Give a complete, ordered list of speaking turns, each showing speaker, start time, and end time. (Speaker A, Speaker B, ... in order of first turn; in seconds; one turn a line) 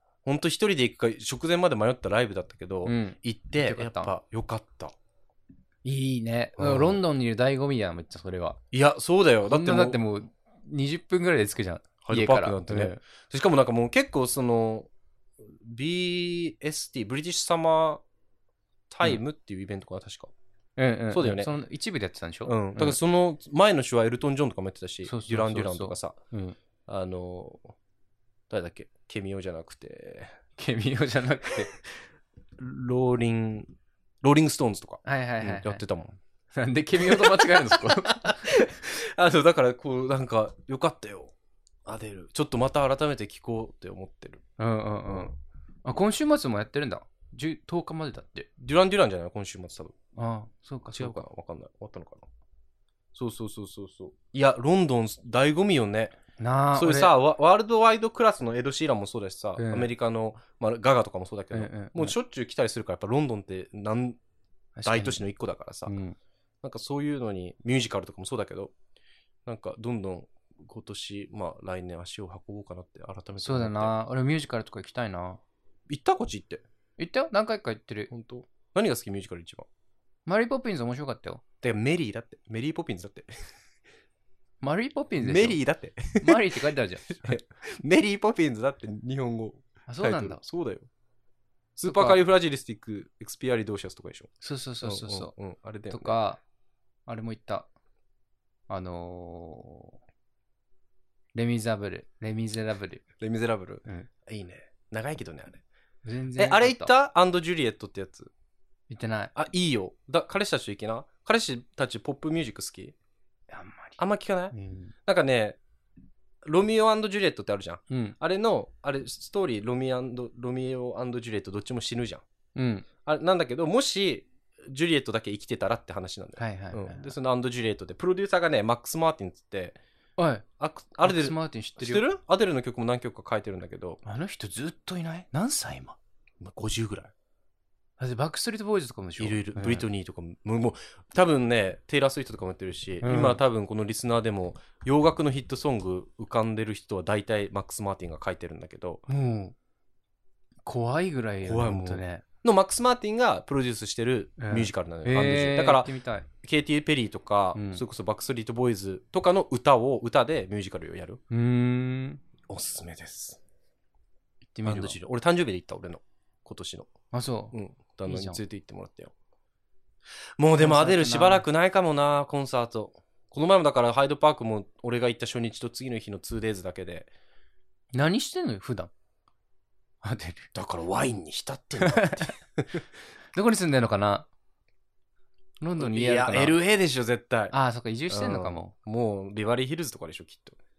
Speaker A: 0.2-4.9
Speaker B: 2.9-4.1
Speaker B: 5.8-8.6
Speaker A: 6.6-7.0
Speaker A: 8.7-10.0
Speaker B: 9.4-13.0
Speaker A: 12.0-14.9
Speaker A: 15.4-18.0
Speaker A: 18.9-20.3
Speaker B: 20.8-23.0
Speaker A: 21.1-21.5
Speaker A: 22.4-26.2
Speaker B: 25.0-26.6
Speaker A: 26.9-27.7
Speaker A: 28.5-30.3
Speaker B: 30.6-31.7
Speaker A: 32.6-36.2
Speaker B: 35.0-35.8
Speaker B: 36.5-38.5
Speaker A: 37.0-41.3
Speaker A: 41.8-44.4
Speaker B: 44.6-45.3
Speaker A: 45.1-45.3
Speaker B: 45.8-48.5
Speaker A: 48.6-49.9
Speaker B: 50.1-51.2
Speaker A: 50.9-52.2
Speaker A: 53.1-56.1
Speaker B: 56.4-57.1
Speaker A: 56.7-64.2
Speaker B: 59.6-59.9
Speaker B: 61.5-62.1
Speaker B: 64.8-65.2
Speaker A: 64.8-65.9
Speaker B: 65.8-66.2
Speaker A: 66.6-68.7
Speaker A: 69.5-73.9
Speaker B: 73.4-75.4
Speaker A: 75.9-76.6
Speaker B: 77.0-78.1
Speaker A: 78.1-79.7
Speaker B: 80.2-81.4
Speaker A: 81.6-83.3
Speaker B: 84.6-85.6
Speaker A: 85.2-86.5
Speaker B: 86.2-87.3
Speaker A: 87.1-90.9
Speaker B: 89.9-90.4
Speaker A: 91.8-94.3
Speaker B: 91.8-92.2
Speaker B: 94.4-95.3
Speaker A: 94.8-96.2
Speaker B: 95.9-96.4
Speaker B: 97.0-97.7
Speaker B: 98.7-99.9
Speaker B: 101.3-103.0
Speaker A: 103.2-105.6
Speaker B: 106.0-106.9
Speaker A: 106.4-108.3
Speaker B: 108.9-109.3
Speaker A: 109.3-112.9
Speaker B: 113.5-114.0
Speaker A: 114.0-114.5
Speaker B: 114.5-114.9
Speaker A: 115.0-115.6
Speaker A: 116.4-122.2
Speaker B: 117.9-118.2
Speaker B: 122.5-122.8
Speaker A: 123.0-129.8
Speaker B: 126.4-127.1
Speaker B: 130.2-130.4
Speaker A: 130.6-134.0
Speaker B: 131.0-132.0
Speaker B: 134.0-136.0
Speaker A: 136.4-137.1
Speaker B: 138.0-139.8
Speaker A: 139.2-149.0
Speaker B: 143.0-143.4
Speaker B: 149.1-149.5
Speaker B: 150.7-152.2
Speaker A: 151.4-155.9
Speaker B: 154.4-156.3
Speaker A: 156.4-161.2
Speaker B: 157.5-157.8
Speaker B: 161.3-162.2
Speaker A: 162.5-163.4
Speaker B: 164.5-165.0
Speaker A: 164.6-166.9
Speaker B: 167.1-167.5
Speaker A: 167.5-169.1
Speaker B: 168.1-168.4
Speaker A: 170.4-177.1
Speaker B: 170.6-171.4
Speaker B: 177.9-178.9
Speaker B: 180.0-180.5
Speaker A: 180.5-182.8
Speaker B: 181.8-182.3
Speaker B: 183.3-184.3
Speaker B: 185.6-186.5
Speaker A: 185.8-187.5
Speaker B: 187.5-188.7
Speaker A: 188.1-190.6